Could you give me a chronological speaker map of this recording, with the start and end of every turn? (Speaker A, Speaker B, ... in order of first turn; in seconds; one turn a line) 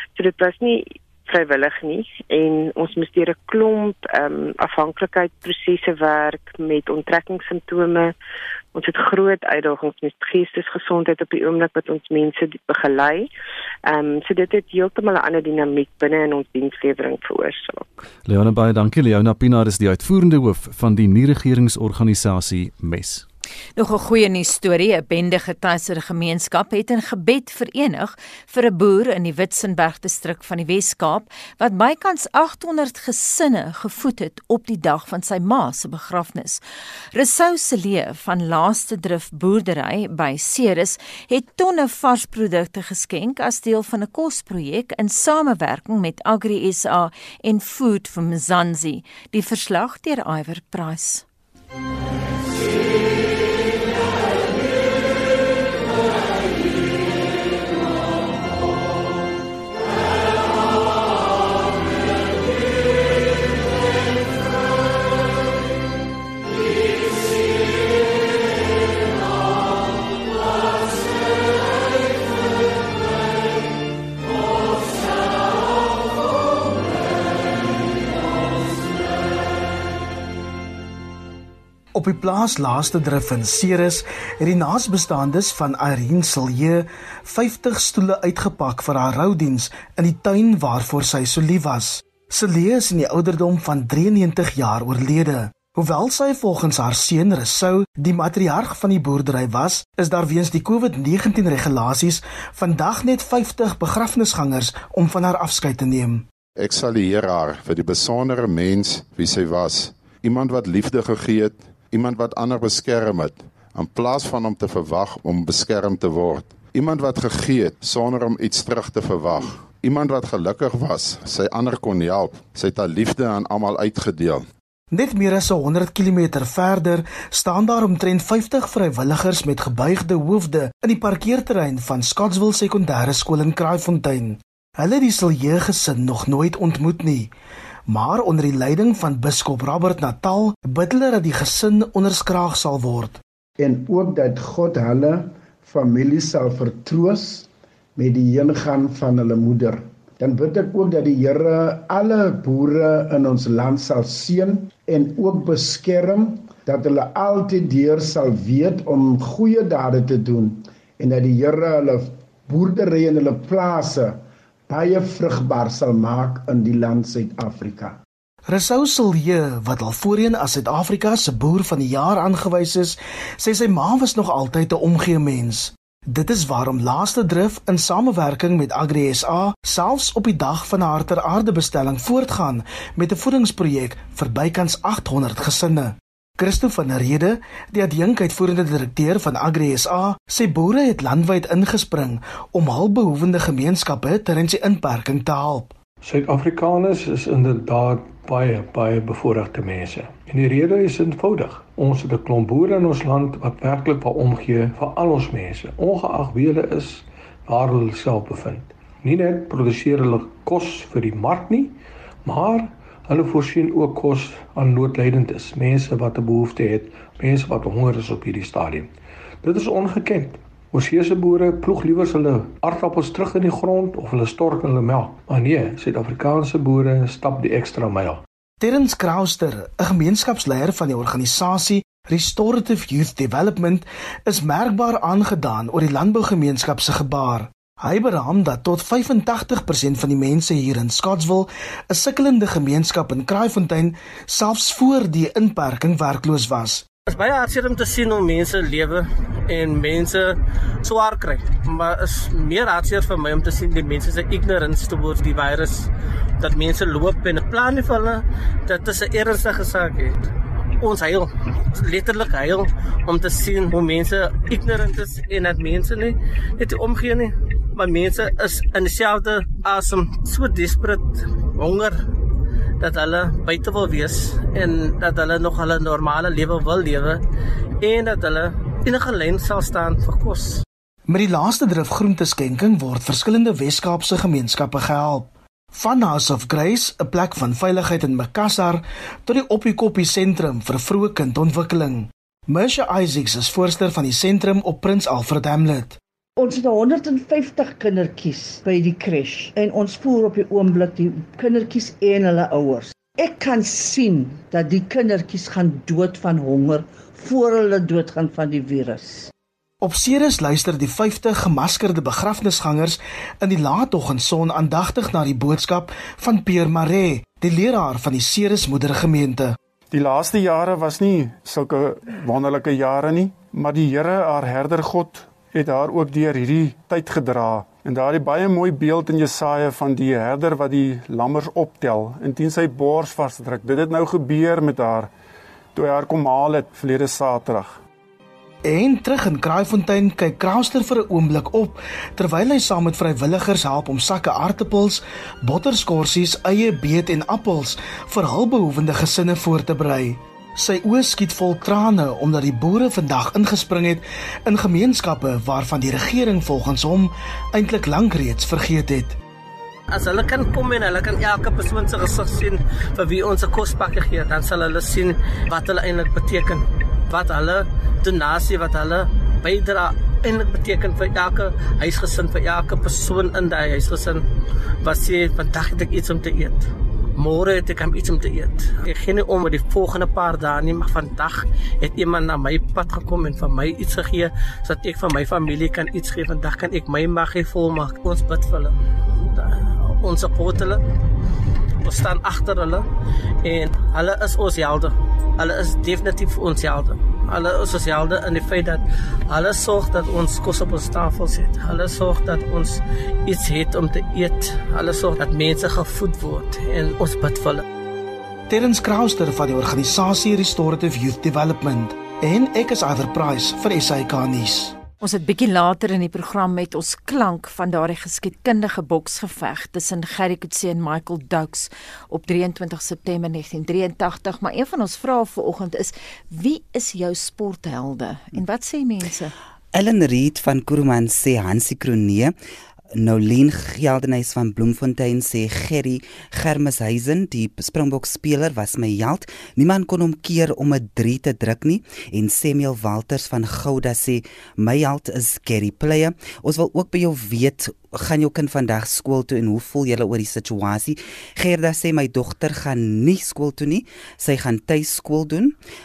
Speaker A: 0.1-8.1
Speaker A: 8.7-13.3
Speaker A: 13.9-18.0
Speaker B: 18.2-23.2
Speaker C: 23.8-36.6
Speaker C: 37.1-51.2
Speaker D: 81.9-106.2
Speaker E: 106.6-124.4
Speaker D: 124.9-137.3
Speaker D: 137.9-143.2
Speaker F: 143.6-168.0
Speaker D: 168.5-195.7
Speaker G: 196.0-218.9
Speaker G: 219.4-228.2
Speaker D: 228.6-246.8
Speaker H: 247.1-255.9
Speaker H: 256.4-260.2
Speaker H: 260.8-272.1
Speaker H: 272.8-277.2
Speaker H: 277.8-280.6
Speaker D: 281.1-296.0
Speaker I: 296.4-309.3
Speaker D: 309.8-319.6
Speaker J: 319.9-335.1
Speaker J: 335.7-337.8
Speaker D: 338.6-359.2
Speaker H: 359.9-374.2
Speaker H: 374.8-376.7
Speaker H: 377.2-390.8
Speaker H: 391.8-392.9
Speaker H: 393.4-407.6
Speaker D: 408.5-414.8
Speaker C: 415.0-429.3
Speaker K: 429.7-432.3
Speaker K: 433.0-455.5